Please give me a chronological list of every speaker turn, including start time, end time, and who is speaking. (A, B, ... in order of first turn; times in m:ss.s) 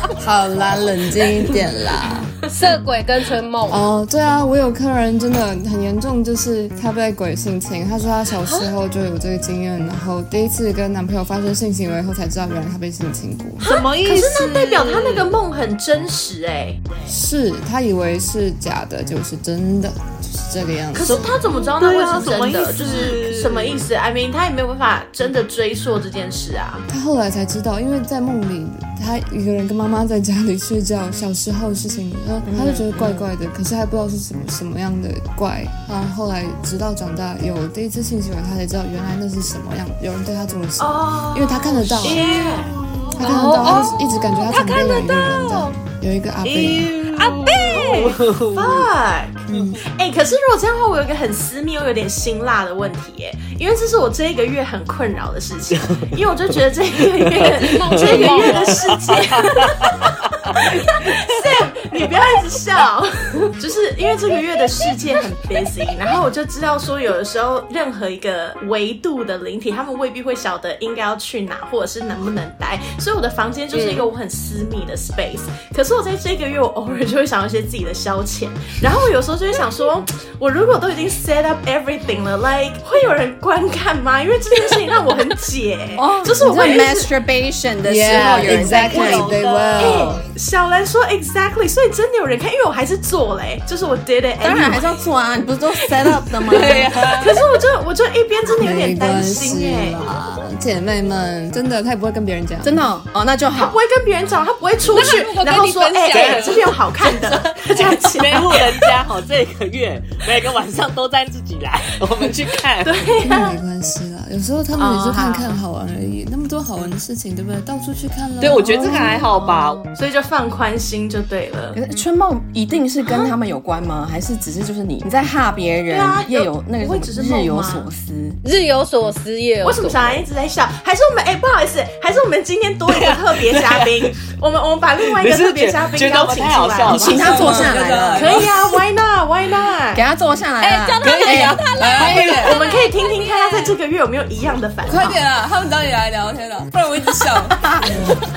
0:00.2-0:02.3 A
0:02.5-0:03.8 B
0:03.7-0:13.7 A
0:13.6-0:16.8 C
0:13.6-0:15.4 D
0:17.1-0:21.3 A
0:20.9-0:26.8 C
0:21.0-0:23.9 D
0:26.9-0:42.2 A
0:32.5-0:33.3 E
0:40.8-0:42.7 C
0:42.0-0:43.2 D
0:43.2-0:46.9 A
0:43.2-0:45.7 B
0:46.4-0:48.9 D
0:47.1-0:48.2 B
0:47.7-1:27.1 C
0:49.5-0:49.8 A
0:55.8-0:56.1 D
0:57.1-1:01.4 D
0:57.6-0:58.8 B
1:13.7-1:14.1 B
1:26.0-1:29.4 E
1:27.8-1:30.2 A
1:28.1-1:30.2 D
1:29.8-1:34.9 C
1:34.4-1:37.1 E
1:36.4-1:37.4 D
1:37.1-1:40.0 C
1:38.6-1:42.8 A
1:42.6-1:43.8 E
1:43.6-1:48.9 C
1:44.9-1:46.7 B
1:46.1-1:53.1 D
1:52.2-1:53.6 C
1:53.2-1:59.2 A
1:54.8-1:55.6 C
1:58.4-1:59.8 D
1:59.1-2:01.8 C
2:01.8-2:08.4 E
2:03.0-2:03.3 C
2:05.9-2:07.9 C
2:08.4-2:10.2 B
2:09.6-2:17.5 C
2:12.9-2:14.1 D
2:15.1-2:17.8 D
2:16.9-2:18.5 E
2:17.1-2:18.5 A
2:18.1-2:20.0 C
2:19.9-2:21.6 E
2:20.6-2:23.8 B
2:21.0-2:22.6 D
2:21.8-2:22.4 A
2:22.1-2:25.2 C
2:24.9-2:28.1 A
2:27.6-2:27.9 E